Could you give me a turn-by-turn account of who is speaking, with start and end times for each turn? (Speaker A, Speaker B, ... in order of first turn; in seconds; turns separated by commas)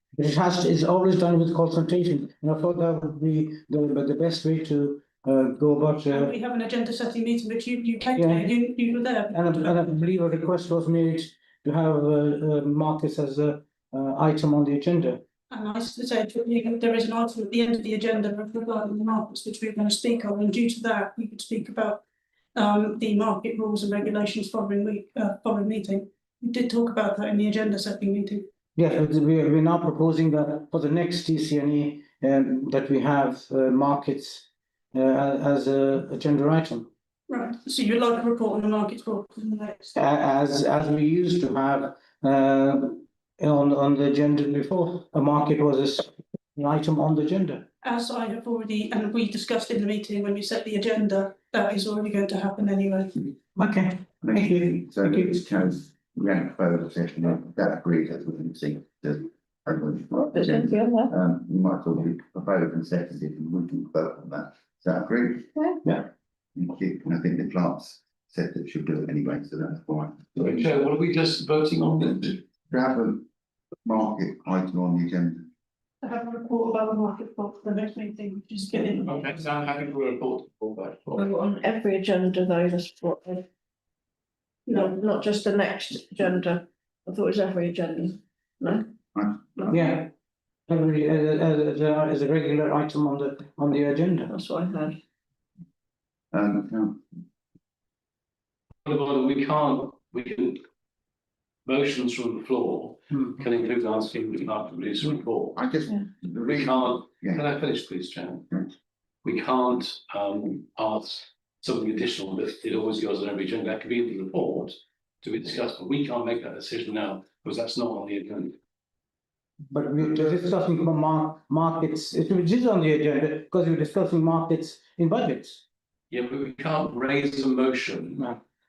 Speaker A: 0.1-6.3, Speaker B: 6.1-9.7, Speaker A: 8.2-8.5, Speaker A: 9.3-15.2, Speaker B: 15.5-22.0, Speaker B: 22.5-28.5, Speaker A: 28.8-36.9, Speaker B: 37.3-39.9, Speaker A: 39.9-47.7, Speaker B: 47.8-53.1, Speaker A: 53.5-55.4, Speaker C: 54.2-65.9, Speaker D: 60.1-61.1, Speaker C: 66.5-70.6, Speaker E: 70.3-72.4, Speaker C: 72.0-73.3, Speaker C: 73.8-75.5, Speaker B: 76.0-79.3, Speaker E: 79.0-81.3, Speaker D: 81.2-83.4, Speaker B: 84.7-85.0, Speaker D: 84.7-88.9, Speaker C: 89.1-89.7, Speaker D: 89.6-89.9, Speaker A: 89.7-90.1, Speaker A: 90.7-94.3, Speaker D: 94.3-95.0, Speaker C: 96.3-97.0, Speaker E: 98.8-100.6, Speaker E: 101.7-105.6, Speaker A: 103.1-103.4, Speaker C: 105.0-107.5, Speaker E: 106.5-108.5, Speaker E: 109.2-118.6, Speaker A: 119.7-125.6, Speaker E: 126.1-128.3